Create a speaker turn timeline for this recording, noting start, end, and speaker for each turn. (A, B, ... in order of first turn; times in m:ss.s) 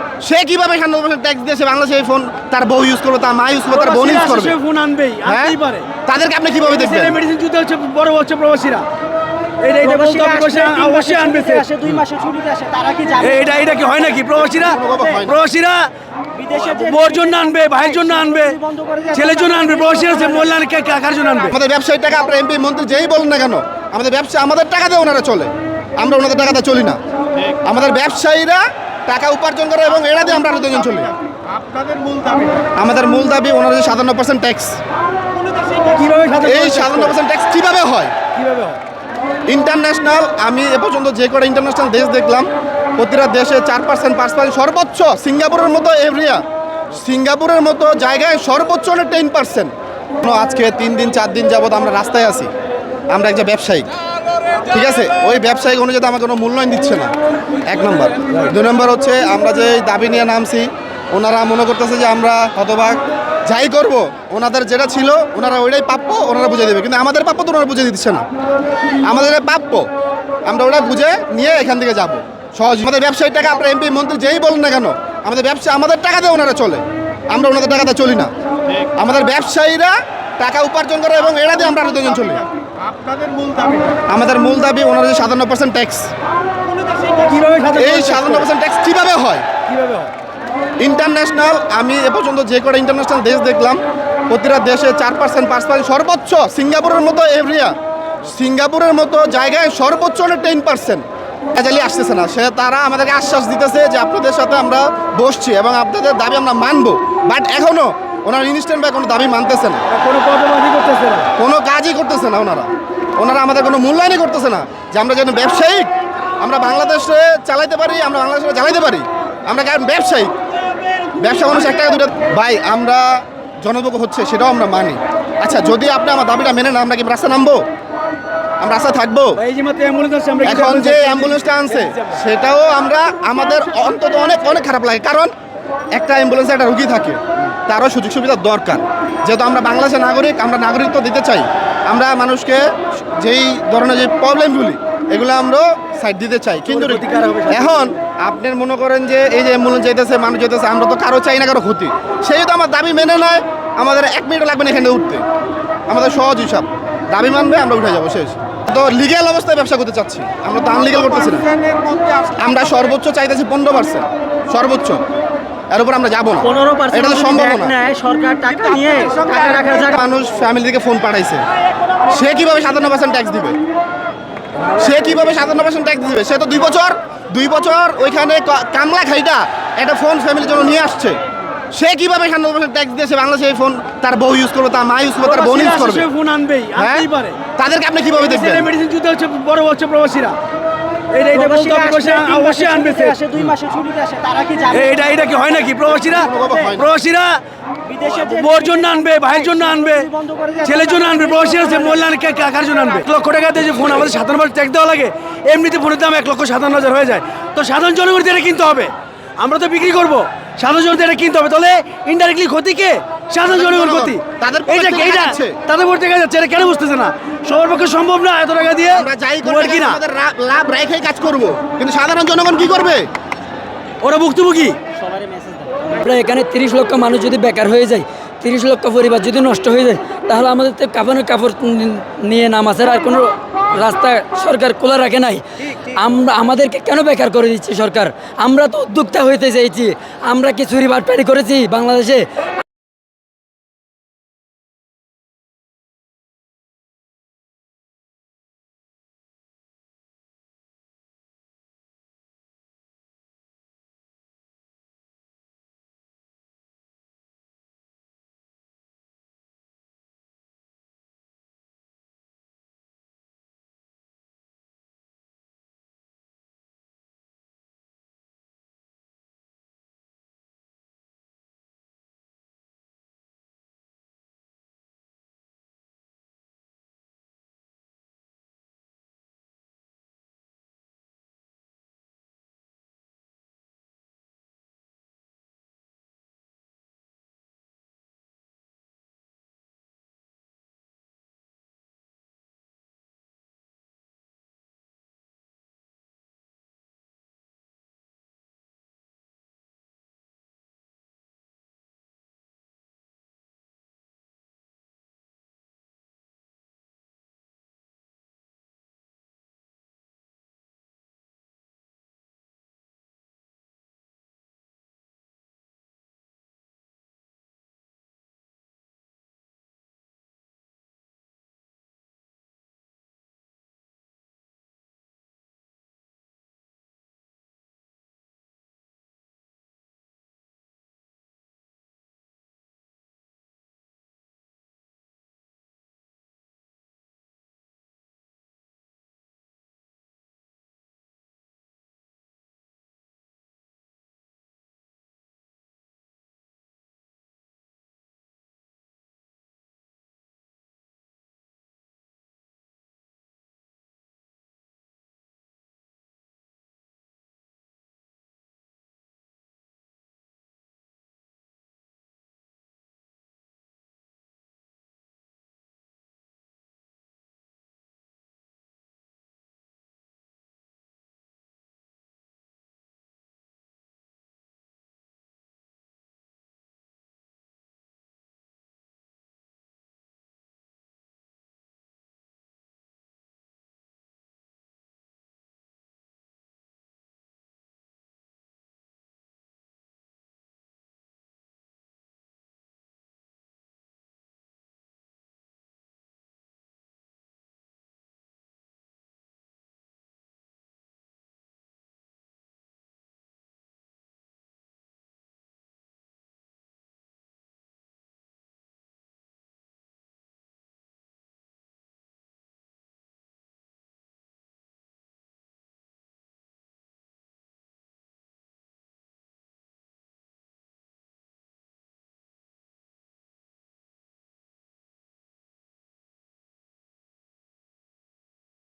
0:00.2-0:04.6 A
0:03.7-0:05.9 B
0:05.3-0:05.5 A
0:06.0-0:07.2 A
0:06.7-0:08.8 B
0:09.6-0:11.8 B
0:10.8-0:13.2 C
0:13.2-0:15.9 B
0:14.6-0:15.4 A
0:16.5-0:21.5 B
0:18.6-0:19.1 C
0:21.5-0:27.0 A
0:27.6-0:31.1 A
0:32.8-0:34.8 A
0:35.6-0:37.1 B
0:36.4-0:38.1 A
0:38.3-0:38.8 B
0:39.5-0:52.5 A
0:53.1-0:53.9 A
0:54.7-0:57.1 A
0:57.7-1:08.2 A
1:09.1-1:09.8 A
1:10.5-1:18.3 A
1:19.0-1:22.4 A
1:24.1-1:26.1 A
1:27.0-1:28.4 B
1:27.7-1:29.4 A
1:29.7-1:30.1 B
1:30.8-1:41.0 A
1:41.5-1:49.8 A
1:49.9-1:51.3 B
1:51.4-2:00.3 A
2:01.2-2:07.6 A
2:08.6-2:09.4 A
2:09.4-2:12.2 B
2:10.4-2:15.3 A
2:15.9-2:35.2 A
2:26.7-2:27.9 B
2:35.9-2:41.6 A
2:42.3-2:45.0 A
2:45.7-2:47.8 A
2:47.8-2:49.2 C
2:49.1-2:51.4 A
2:52.1-2:53.6 A
2:54.7-3:01.2 A
3:01.7-3:06.0 A
3:05.2-3:07.4 B
3:06.8-3:07.1 A
3:07.6-3:08.7 A
3:08.2-3:10.4 B
3:11.1-3:13.4 B
3:13.0-3:14.7 C
3:14.6-3:17.4 B
3:16.1-3:16.9 A
3:18.0-3:18.2 C
3:18.0-3:40.0 B
3:20.0-3:20.6 C
3:33.4-3:35.6 A
3:38.9-3:43.0 A
3:44.0-3:44.8 B
3:45.0-3:46.2 C
3:46.2-3:55.4 D
3:56.0-4:02.3 D